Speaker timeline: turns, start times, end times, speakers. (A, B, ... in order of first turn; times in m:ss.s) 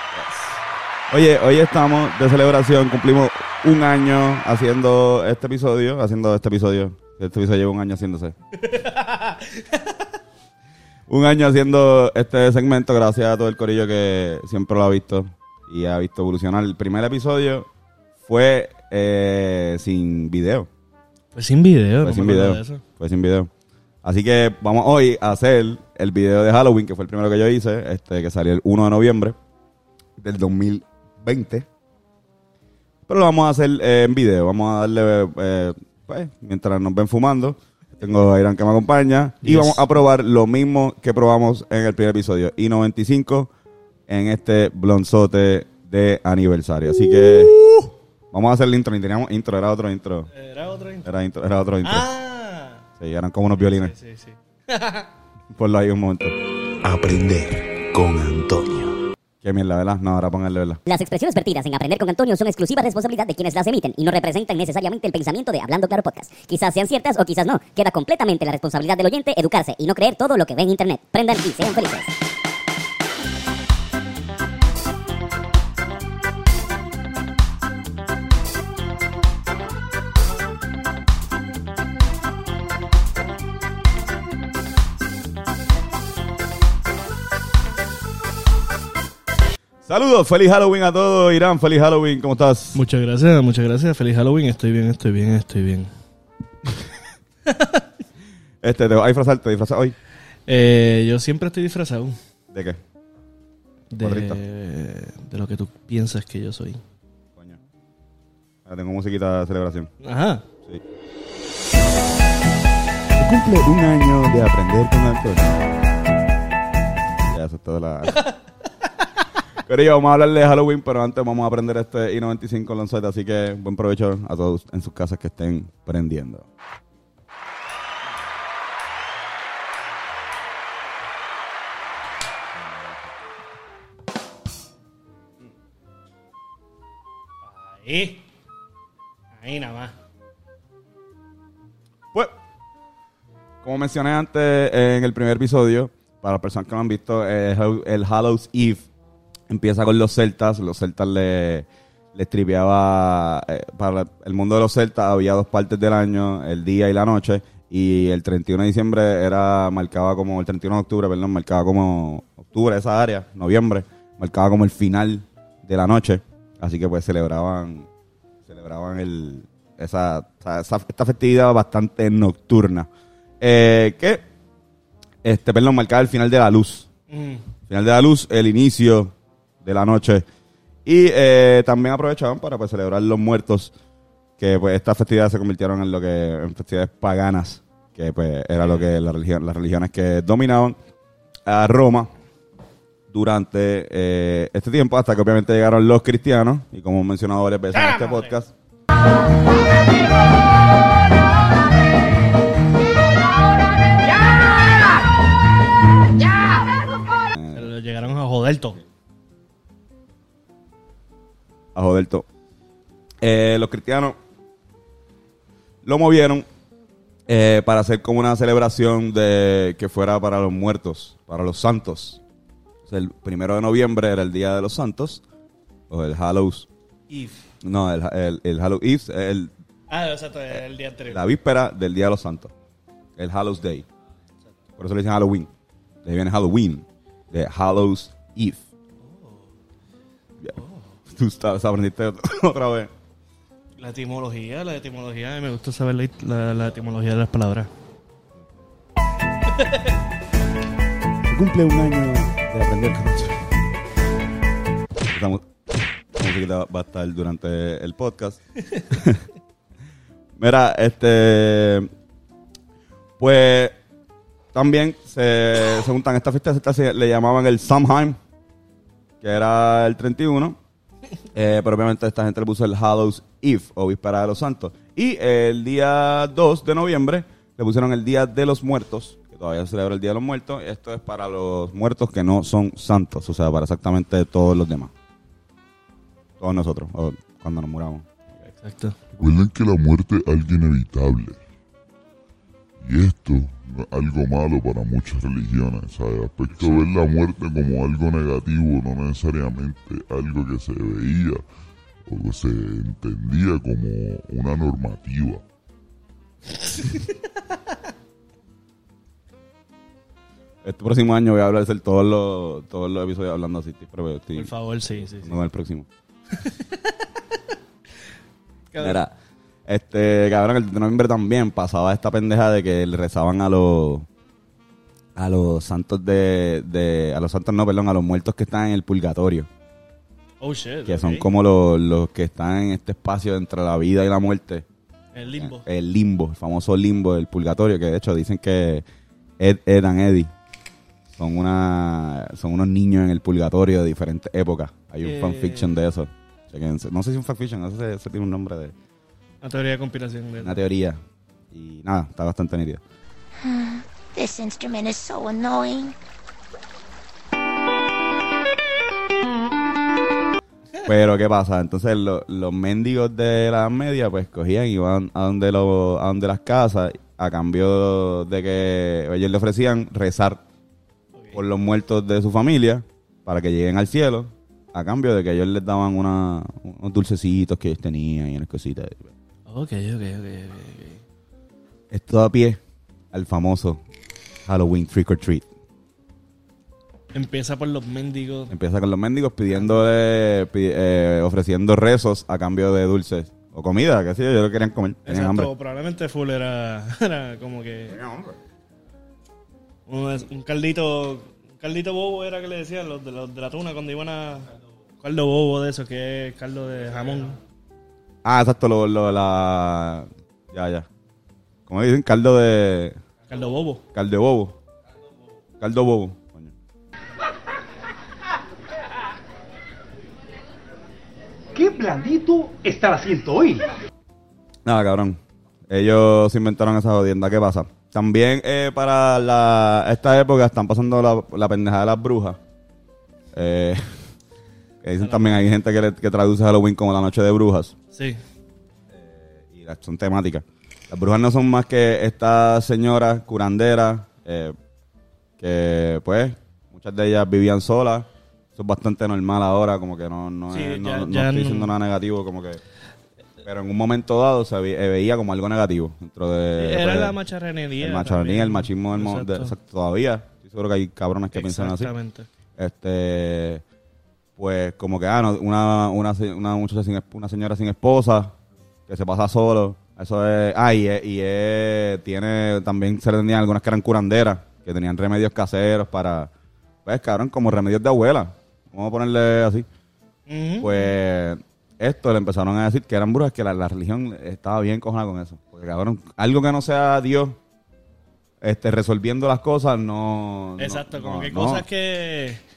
0:01.1-0:08.3 A
0:08.6-0:10.0 B
0:11.1-0:17.7 A
0:18.2-0:20.7 A
0:21.3-0:22.8 B
0:22.0-0:23.5 A
0:24.0-0:29.4 A
0:30.2-0:31.6 A
0:33.1-0:43.5 A
0:39.4-0:39.8 B
0:44.1-0:47.5 A
0:47.1-0:47.9 B
0:48.3-0:50.3 A
0:50.3-0:51.1 B
0:51.0-0:52.1 A
0:51.8-0:52.8 B
0:53.0-0:53.9 A
0:53.6-0:55.1 B
0:55.5-0:56.3 A
0:56.8-0:58.9 C
0:59.4-1:00.8 A
1:00.9-1:12.1 D
1:29.8-1:32.8 A
1:32.7-1:35.9 B
1:37.4-1:38.0 B
1:38.6-1:39.9 A
1:40.4-1:42.2 B
1:42.5-1:42.8 A
1:43.9-1:46.8 B
1:44.0-1:44.4 A
1:48.6-1:49.9 A
1:50.0-1:50.4 B
1:53.2-1:55.5 A
1:57.3-1:58.2 A
1:59.6-2:06.4 A
2:17.4-2:18.3 B
2:19.3-2:20.0 B
2:23.6-2:28.8 A
2:29.5-2:47.9 A
2:48.5-2:52.9 A
2:53.4-2:54.2 A
2:55.2-2:56.9 A
2:57.1-2:57.5 B
2:57.7-3:00.2 A
3:00.8-3:03.7 A
3:04.4-3:10.8 A
3:08.6-3:08.8 B
3:11.4-3:12.1 A
3:13.1-3:18.5 A
3:17.7-3:18.4 B
3:27.3-3:27.7 A
3:27.5-3:28.8 B
3:31.7-3:32.2 A
3:33.2-3:34.2 A
3:35.8-3:36.4 A
3:37.3-3:42.2 A
3:42.8-3:45.2 A
3:45.9-3:46.7 A
3:47.1-3:47.5 B
3:47.6-3:49.5 A
3:49.9-3:51.2 B
3:51.1-3:52.5 A
3:53.2-3:53.8 A
3:54.8-3:55.5 A
3:56.0-3:58.6 A
3:59.0-3:59.5 B
4:00.5-4:00.9 B
4:01.1-4:02.9 A
4:03.8-4:07.7 B
4:09.5-4:09.9 B
4:11.3-4:13.4 A
4:15.1-4:15.4 A
4:16.1-4:19.2 A
4:20.4-4:21.9 A
4:23.2-4:23.8 A
4:24.5-4:28.2 A
4:29.2-4:30.6 A
4:31.3-4:44.9 A
4:46.4-4:48.3 A
4:48.5-4:49.0 B
4:49.2-4:51.4 E
4:52.8-5:01.4 E
5:02.1-5:05.4 E
5:06.7-5:07.5 B
5:10.6-5:14.5 A
5:14.3-5:15.4 B
5:15.1-5:15.9 A
5:16.3-5:18.1 B
5:18.7-5:19.0 B
5:18.8-5:19.1 A
5:19.7-5:24.1 A
5:25.2-5:29.5 A
5:30.4-5:31.3 B
5:30.9-5:34.6 A
5:35.1-5:35.6 B
5:35.3-5:38.8 A
5:39.4-5:40.3 A
5:41.2-5:48.7 A
5:45.0-5:45.8 B
5:49.4-5:50.6 B
5:50.4-5:51.0 A
5:51.5-5:52.8 A
5:53.4-5:55.9 F
6:00.8-6:10.4 A
6:11.1-6:11.4 B
6:11.3-6:19.1 A
6:19.5-6:21.0 B
6:21.9-6:22.6 A
6:23.1-6:23.8 A
6:24.4-6:25.4 A
6:27.1-6:28.5 B
6:28.5-6:35.5 A
6:29.5-6:29.8 B
6:35.0-6:38.0 B
6:37.9-6:38.3 A
6:39.9-6:47.4 B
6:48.2-6:50.9 A
6:51.7-6:53.0 A
6:53.3-6:53.8 B
6:53.9-6:54.5 A
6:55.6-6:56.5 A
7:01.5-7:03.5 G
7:04.6-7:12.4 A
7:13.3-7:14.1 A
7:14.8-7:17.7 A
7:15.0-7:15.5 B
7:17.9-7:18.2 B
7:18.9-7:24.6 A
7:25.4-7:32.6 A
7:30.5-7:31.7 B
7:33.4-7:37.2 A
7:36.6-7:39.5 B
7:37.8-7:41.9 A
7:41.3-7:42.3 B
7:42.6-7:43.6 A
7:44.4-7:48.3 A
7:48.9-7:56.3 A
7:56.8-7:59.6 A
8:00.3-8:00.8 B
8:00.6-8:07.4 A
8:08.4-8:11.6 A
8:10.6-8:12.4 B